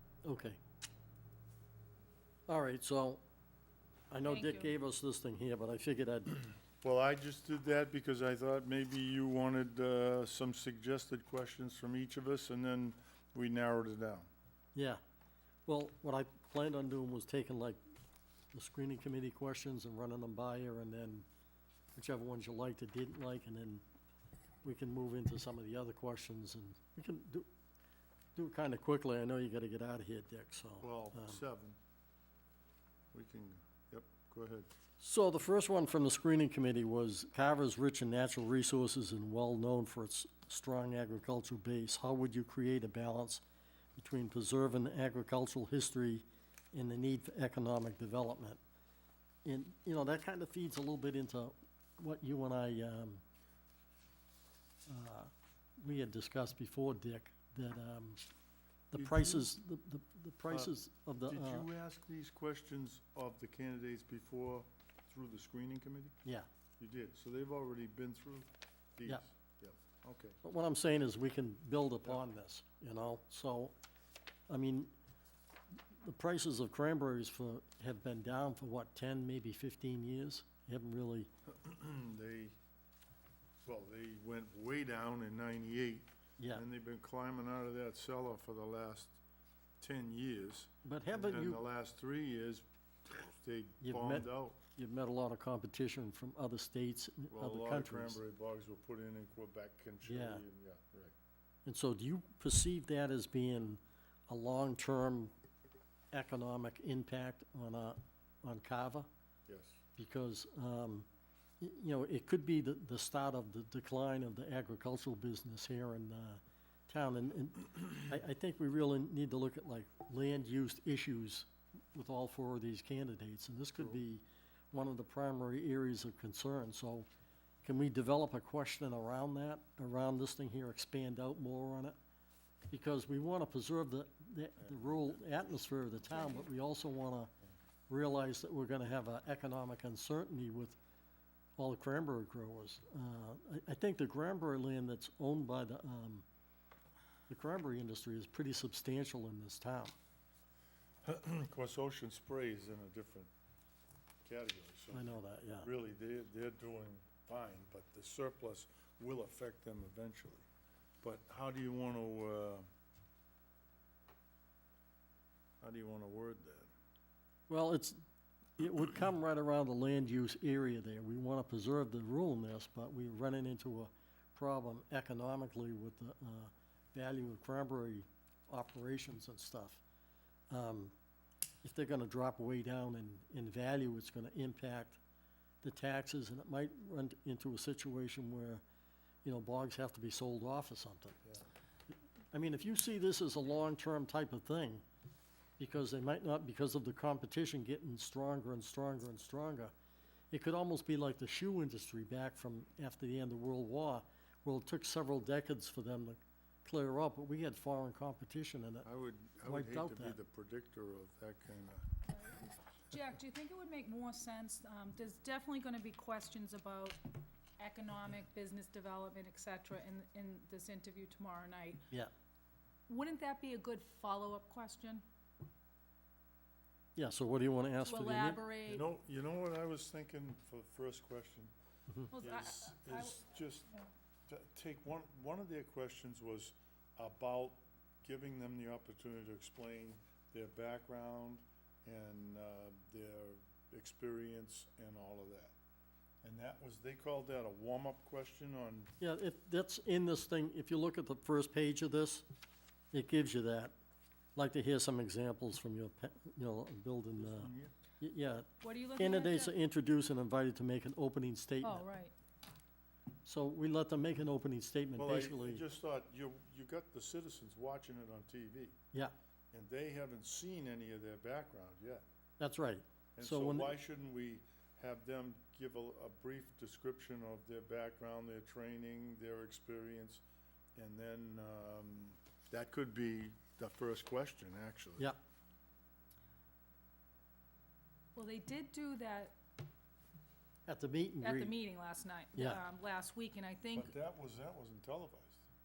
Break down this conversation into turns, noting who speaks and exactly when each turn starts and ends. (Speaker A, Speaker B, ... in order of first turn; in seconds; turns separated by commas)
Speaker A: 0.2-0.6, Speaker A: 2.5-3.2, Speaker A: 4.1-6.4, Speaker B: 4.2-4.7, Speaker C: 6.8-14.3, Speaker A: 14.7-15.0, Speaker A: 15.7-17.8, Speaker A: 18.5-21.2, Speaker A: 21.9-23.8, Speaker A: 24.6-27.5, Speaker A: 28.3-31.4, Speaker C: 30.8-31.8, Speaker C: 33.1-34.7, Speaker A: 35.0-43.4, Speaker A: 44.0-48.6, Speaker A: 49.4-53.2, Speaker A: 54.9-58.2, Speaker A: 58.9-61.6, Speaker C: 58.9-59.5, Speaker C: 61.3-66.2, Speaker C: 66.8-70.4, Speaker A: 70.4-73.7, Speaker A: 74.5-74.9, Speaker A: 76.0-81.3, Speaker C: 81.5-82.5, Speaker C: 83.6-89.2, Speaker C: 89.8-94.6, Speaker A: 90.8-91.6, Speaker A: 93.8-98.2, Speaker C: 97.3-101.1, Speaker A: 100.0-100.4, Speaker A: 101.6-105.3, Speaker A: 106.1-109.1, Speaker C: 109.5-109.8, Speaker A: 110.0-111.0, Speaker A: 111.6-127.1, Speaker A: 127.6-131.9, Speaker A: 132.7-137.3, Speaker B: 136.1-136.4, Speaker A: 137.9-140.8, Speaker A: 141.6-146.2, Speaker A: 147.3-149.9, Speaker C: 151.0-153.3, Speaker C: 154.2-160.4, Speaker A: 154.9-155.7, Speaker C: 161.0-162.7, Speaker C: 165.6-166.7, Speaker A: 167.5-168.0, Speaker A: 168.6-179.8, Speaker A: 180.5-180.9, Speaker A: 181.6-185.0, Speaker A: 185.6-188.6, Speaker A: 189.2-191.2, Speaker A: 192.3-194.8, Speaker A: 195.6-199.7, Speaker A: 200.3-208.8, Speaker C: 208.8-212.0, Speaker A: 209.4-210.2, Speaker B: 212.1-217.0, Speaker B: 217.6-221.8, Speaker B: 222.9-225.0, Speaker A: 226.9-228.4, Speaker B: 227.8-228.9, Speaker C: 228.7-231.5, Speaker B: 232.1-233.3, Speaker C: 232.2-233.7, Speaker C: 234.3-245.5, Speaker C: 246.2-248.9, Speaker A: 249.0-252.2, Speaker A: 252.9-253.7, Speaker A: 254.3-257.5, Speaker C: 257.2-257.7, Speaker A: 258.0-261.8, Speaker B: 258.6-259.5, Speaker B: 261.6-262.1, Speaker A: 263.2-265.6, Speaker C: 265.0-268.8, Speaker C: 269.5-272.0, Speaker A: 272.4-273.7, Speaker C: 273.2-280.2, Speaker C: 280.8-285.1, Speaker B: 288.1-289.4, Speaker A: 290.7-291.5, Speaker B: 291.2-293.9, Speaker A: 292.4-292.6, Speaker C: 293.7-295.4